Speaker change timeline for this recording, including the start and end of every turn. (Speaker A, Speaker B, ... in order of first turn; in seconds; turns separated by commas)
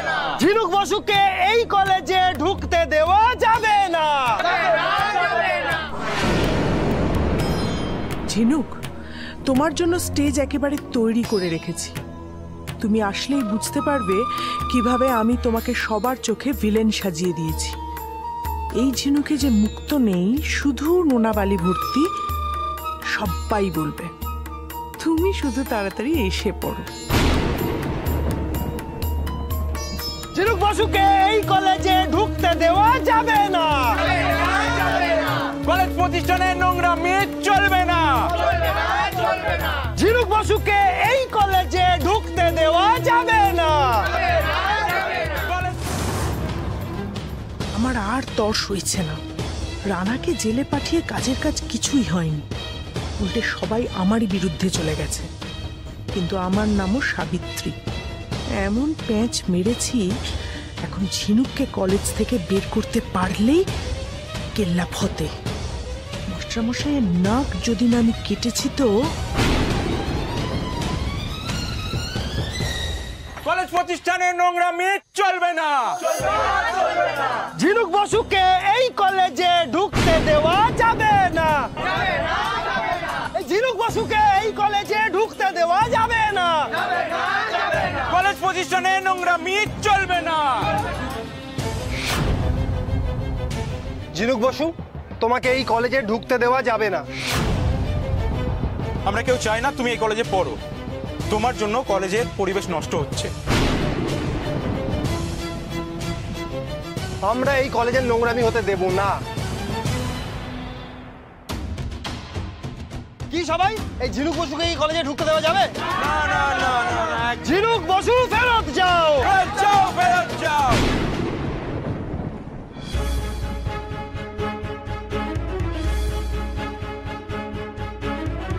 Speaker A: 0.4-4.5, Speaker B: 8.3-8.8, Speaker B: 9.5-11.9, Speaker B: 12.8-17.7, Speaker B: 18.8-22.1, Speaker B: 23.1-24.1, Speaker B: 25.0-26.9, Speaker A: 30.3-34.0, Speaker C: 35.6-38.3, Speaker A: 40.0-44.1, Speaker B: 47.8-49.2, Speaker B: 49.9-52.4, Speaker B: 53.2-55.3, Speaker B: 56.1-57.7, Speaker B: 58.6-60.0, Speaker B: 60.8-63.6, Speaker B: 64.5-65.3, Speaker B: 66.3-68.9, Speaker C: 73.4-76.0, Speaker A: 77.5-81.7, Speaker A: 83.3-86.7, Speaker C: 87.9-90.7, Speaker A: 94.1-97.0, Speaker C: 99.0-100.6, Speaker C: 101.3-103.3, Speaker A: 107.2-109.2, Speaker A: 113.3-115.7, Speaker C: 116.7-117.1, Speaker A: 117.3-119.4